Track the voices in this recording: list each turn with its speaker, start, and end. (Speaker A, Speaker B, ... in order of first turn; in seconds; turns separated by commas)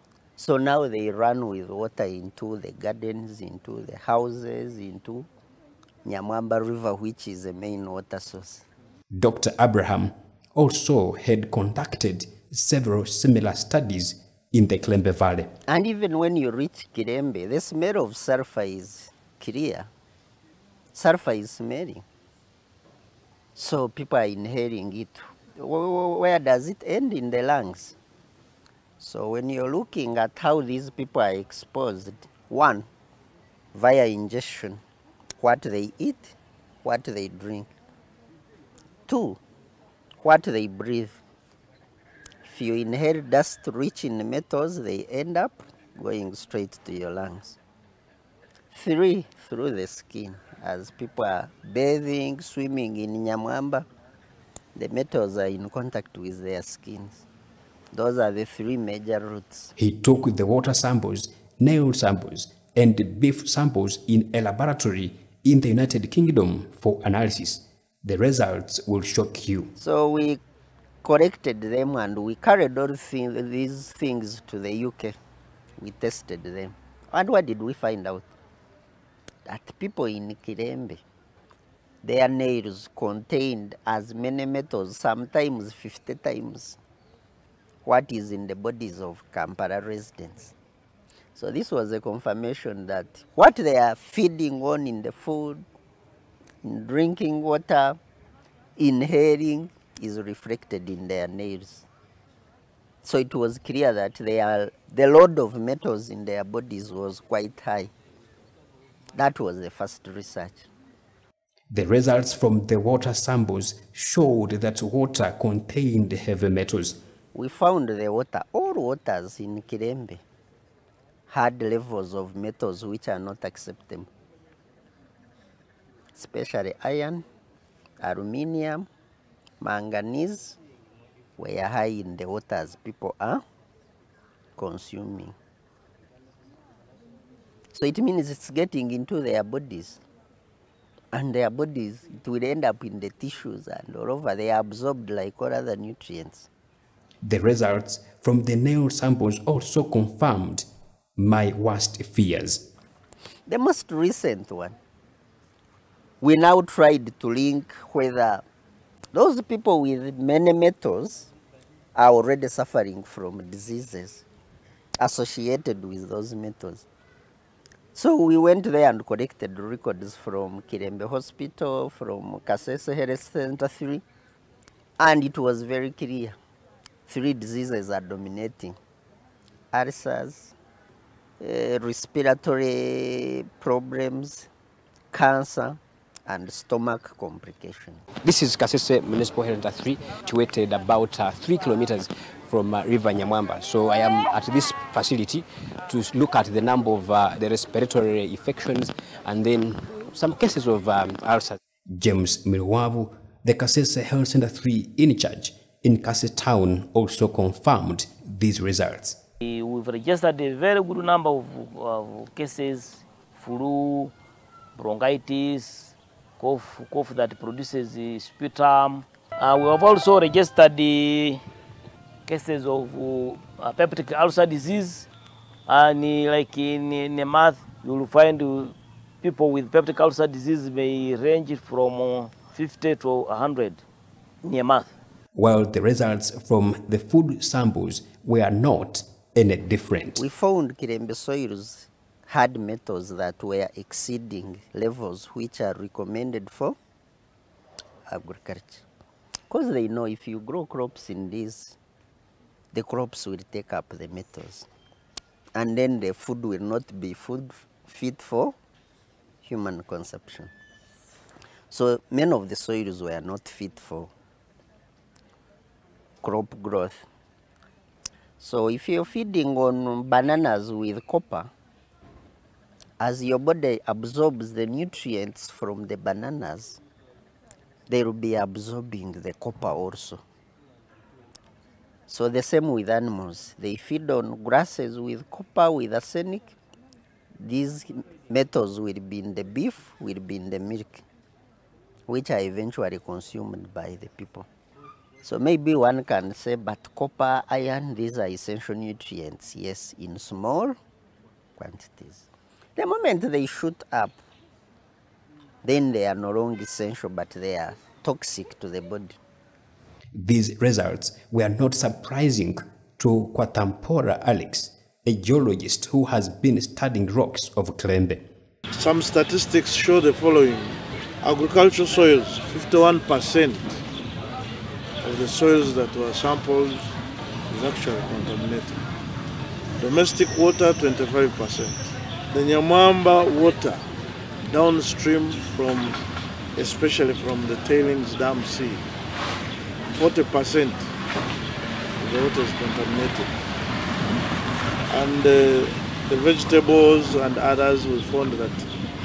Speaker A: 0.4-5.3, Speaker A: 6.0-8.7, Speaker B: 9.1-15.5, Speaker A: 15.7-19.9, Speaker A: 20.9-22.0, Speaker A: 23.6-28.0, Speaker A: 29.0-32.9, Speaker A: 33.7-34.8, Speaker A: 35.4-37.7, Speaker A: 39.1-39.4, Speaker A: 40.2-41.2, Speaker A: 42.5-47.6, Speaker A: 48.7-53.9, Speaker A: 54.8-57.2, Speaker A: 57.9-59.7, Speaker B: 59.8-69.7, Speaker A: 69.8-70.4, Speaker A: 71.0-75.2, Speaker A: 75.8-78.3, Speaker A: 79.5-81.0, Speaker A: 82.0-86.8, Speaker A: 87.9-90.5, Speaker A: 91.4-95.7, Speaker A: 96.6-98.0, Speaker A: 98.8-101.9, Speaker A: 103.0-107.9, Speaker A: 109.2-110.7, Speaker B: 111.7-117.0, Speaker A: 117.3-120.2, Speaker A: 121.3-124.1, Speaker A: 126.2-127.3, Speaker A: 128.0-128.9, Speaker A: 129.6-130.6, Speaker A: 131.4-133.4, Speaker A: 134.6-135.4, Speaker A: 137.7-140.0, Speaker A: 141.1-146.5, Speaker B: 147.2-150.7, Speaker B: 151.2-152.7, Speaker A: 153.5-154.8, Speaker A: 156.2-158.4, Speaker A: 159.1-161.3, Speaker A: 162.0-164.2, Speaker A: 165.0-166.9, Speaker A: 167.9-174.0, Speaker A: 175.0-176.4, Speaker A: 177.1-178.8, Speaker A: 179.7-180.5, Speaker A: 181.4-184.5, Speaker A: 185.1-188.0, Speaker B: 188.2-209.2, Speaker C: 209.4-214.1, Speaker C: 214.8-221.4, Speaker C: 222.3-225.1, Speaker C: 225.7-233.8, Speaker C: 234.4-234.9, Speaker B: 235.3-240.2, Speaker A: 240.2-246.8, Speaker A: 248.1-248.8, Speaker A: 249.5-251.8, Speaker A: 252.7-254.7, Speaker A: 255.6-258.6, Speaker A: 259.4-260.5, Speaker A: 261.7-264.1, Speaker A: 266.2-267.1, Speaker A: 268.4-271.5, Speaker A: 273.0-276.8, Speaker A: 277.9-280.2, Speaker A: 282.1-286.6, Speaker A: 287.4-291.1, Speaker A: 292.1-294.5, Speaker A: 295.2-300.8, Speaker A: 301.6-302.3, Speaker A: 302.8-304.2, Speaker A: 305.6-309.2, Speaker B: 310.1-318.2, Speaker D: 318.7-323.8, Speaker D: 325.0-326.9, Speaker D: 327.5-328.8, Speaker D: 329.8-331.8, Speaker D: 332.3-333.8, Speaker D: 334.5-336.0, Speaker D: 336.6-338.9, Speaker D: 339.9-340.9, Speaker D: 342.0-343.4, Speaker D: 344.9-348.7